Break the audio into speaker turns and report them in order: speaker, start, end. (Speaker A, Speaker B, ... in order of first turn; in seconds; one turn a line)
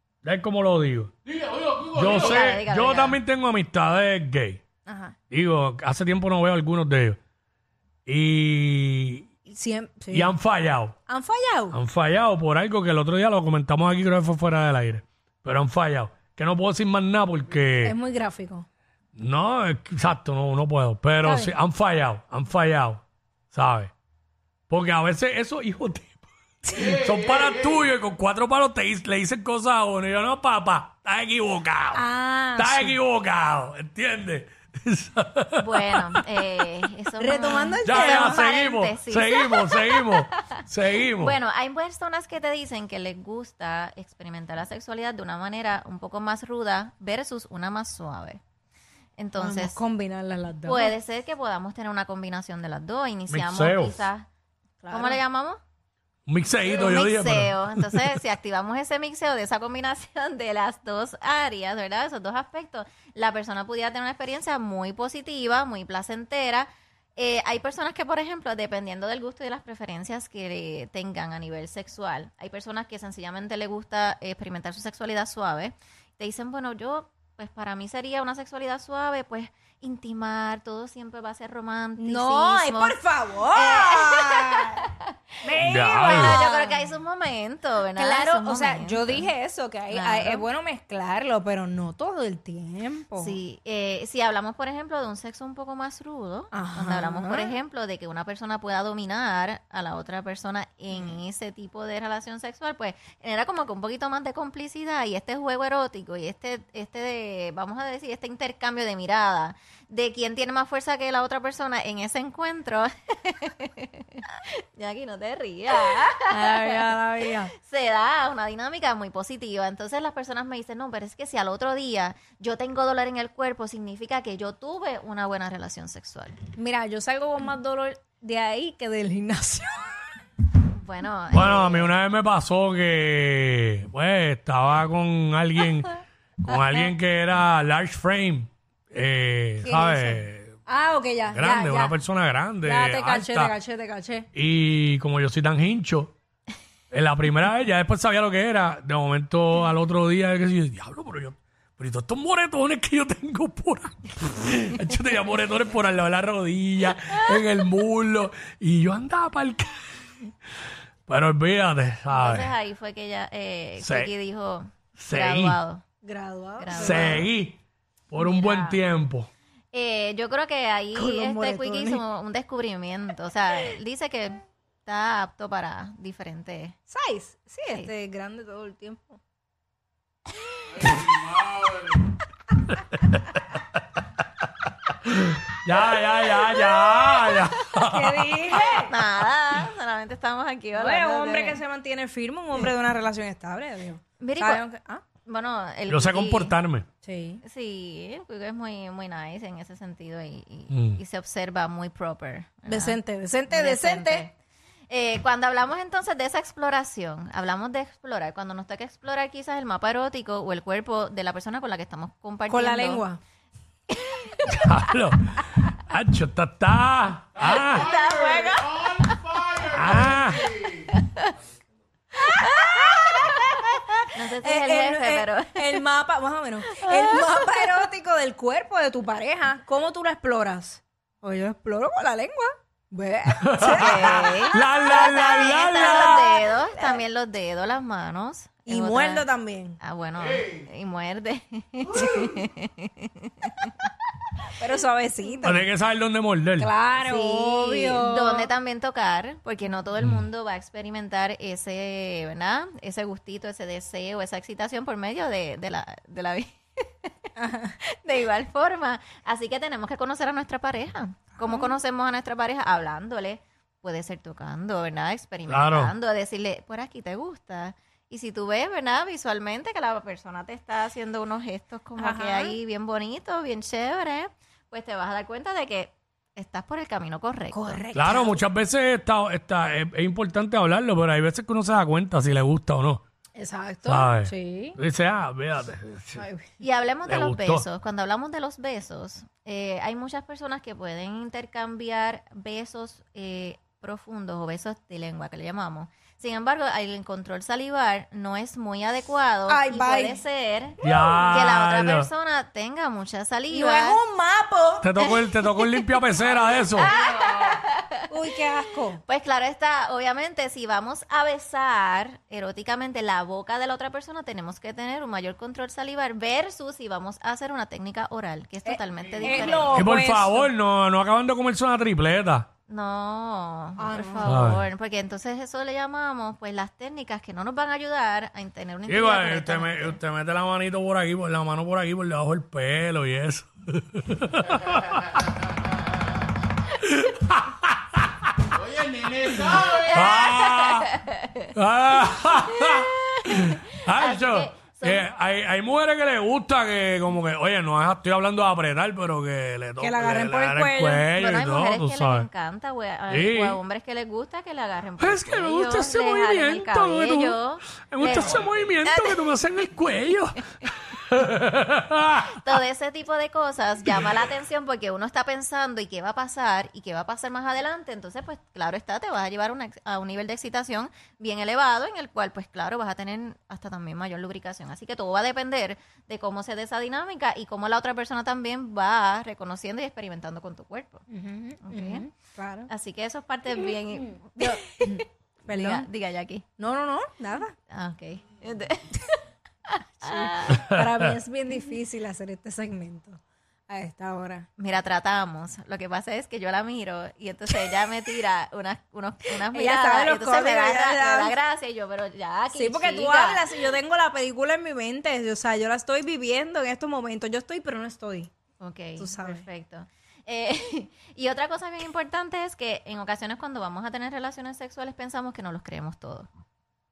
Speaker A: 0.2-4.6
Speaker B: 1.9-3.2
Speaker C: 4.9-5.2
Speaker A: 5.3-7.2
Speaker A: 8.1-9.3
Speaker C: 9.5-10.3
Speaker A: 10.1-11.0
Speaker C: 11.1-11.8
Speaker A: 11.7-18.0
Speaker C: 17.8-18.7
Speaker A: 19.2-23.9
Speaker C: 21.2-21.5
Speaker A: 24.7-32.0
Speaker C: 26.7-27.0
Speaker C: 31.9-33.0
Speaker A: 32.6-36.2
Speaker B: 35.6-40.6
Speaker C: 37.2-38.5
Speaker A: 37.9-41.4
Speaker B: 41.2-48.4
Speaker B: 49.2-49.8
Speaker C: 49.4-50.9
Speaker B: 50.6-54.3
Speaker A: 53.3-54.0
Speaker C: 54.8-55.2
Speaker B: 54.9-55.6
Speaker A: 56.3-58.2
Speaker B: 56.6-83.0
Speaker C: 82.0-84.8
Speaker B: 83.5-89.3
Speaker C: 85.4-86.9
Speaker A: 85.6-86.4
Speaker C: 88.0-93.4
Speaker B: 89.9-90.4
Speaker B: 93.2-126.4
Speaker C: 96.5-97.5
Speaker C: 116.1-117.5
Speaker C: 126.6-130.1
Speaker B: 130.7-131.9
Speaker A: 131.3-140.6
Speaker C: 139.6-142.0
Speaker A: 141.3-143.5
Speaker C: 142.6-144.3
Speaker A: 144.3-146.1
Speaker A: 146.9-159.8
Speaker A: 161.1-162.5
Speaker B: 162.1-165.8
Speaker A: 163.8-164.1
Speaker A: 165.0-165.6
Speaker C: 166.0-167.2
Speaker B: 166.6-167.2
Speaker A: 166.8-167.6
Speaker A: 168.1-169.3
Speaker B: 168.2-168.8
Speaker C: 168.3-168.6
Speaker B: 169.7-176.8
Speaker C: 170.9-172.0
Speaker C: 176.9-179.2
Speaker A: 185.0-188.4
Speaker C: 187.7-188.9
Speaker B: 188.5-191.6
Speaker C: 190.8-195.0
Speaker B: 194.2-194.6
Speaker B: 195.2-196.6
Speaker A: 195.9-196.9
Speaker C: 197.0-197.4
Speaker B: 197.4-203.0
Speaker A: 200.7-201.0
Speaker C: 202.7-204.3
Speaker B: 203.5-204.3
Speaker B: 204.9-213.0
Speaker C: 212.5-213.2
Speaker B: 213.9-214.7
Speaker A: 214.5-217.9
Speaker B: 217.4-220.2
Speaker A: 219.7-220.6
Speaker B: 220.8-221.3
Speaker B: 222.2-225.8
Speaker C: 222.4-237.0
Speaker B: 226.7-227.8
Speaker A: 233.4-236.3
Speaker B: 233.6-239.3
Speaker C: 238.7-239.8
Speaker B: 239.8-243.9
Speaker C: 244.5-245.7
Speaker A: 245.4-246.7
Speaker C: 246.6-248.5
Speaker B: 247.0-257.1
Speaker C: 257.4-257.8
Speaker B: 257.8-277.8
Speaker A: 265.5-265.9
Speaker C: 272.0-272.6
Speaker C: 277.5-278.4
Speaker A: 277.9-283.0
Speaker C: 283.4-284.8
Speaker A: 283.9-286.3
Speaker C: 286.2-286.5
Speaker B: 286.6-304.0
Speaker A: 287.1-287.6
Speaker C: 299.5-300.2
Speaker A: 300.8-302.1
Speaker C: 303.5-305.8
Speaker A: 304.8-306.9
Speaker C: 306.7-309.0
Speaker B: 306.8-308.0
Speaker B: 309.0-319.9
Speaker C: 318.7-320.5
Speaker A: 319.7-322.5
Speaker B: 322.7-330.0
Speaker C: 323.8-324.5
Speaker A: 324.2-324.6
Speaker A: 328.9-335.2
Speaker A: 336.8-340.9
Speaker B: 339.6-341.5
Speaker A: 341.6-352.3
Speaker B: 342.5-345.1
Speaker C: 349.8-351.1
Speaker B: 351.1-359.2
Speaker A: 353.1-353.6
Speaker A: 355.0-362.4
Speaker B: 362.3-381.1
Speaker C: 381.1-382.7
Speaker B: 381.6-382.1
Speaker B: 382.7-386.4
Speaker C: 384.4-385.9
Speaker C: 386.6-387.6
Speaker B: 387.7-390.7
Speaker C: 390.0-394.5
Speaker A: 390.7-391.1
Speaker B: 394.6-403.7
Speaker C: 399.5-401.4
Speaker C: 402.6-408.3
Speaker B: 408.6-416.3
Speaker C: 409.0-409.4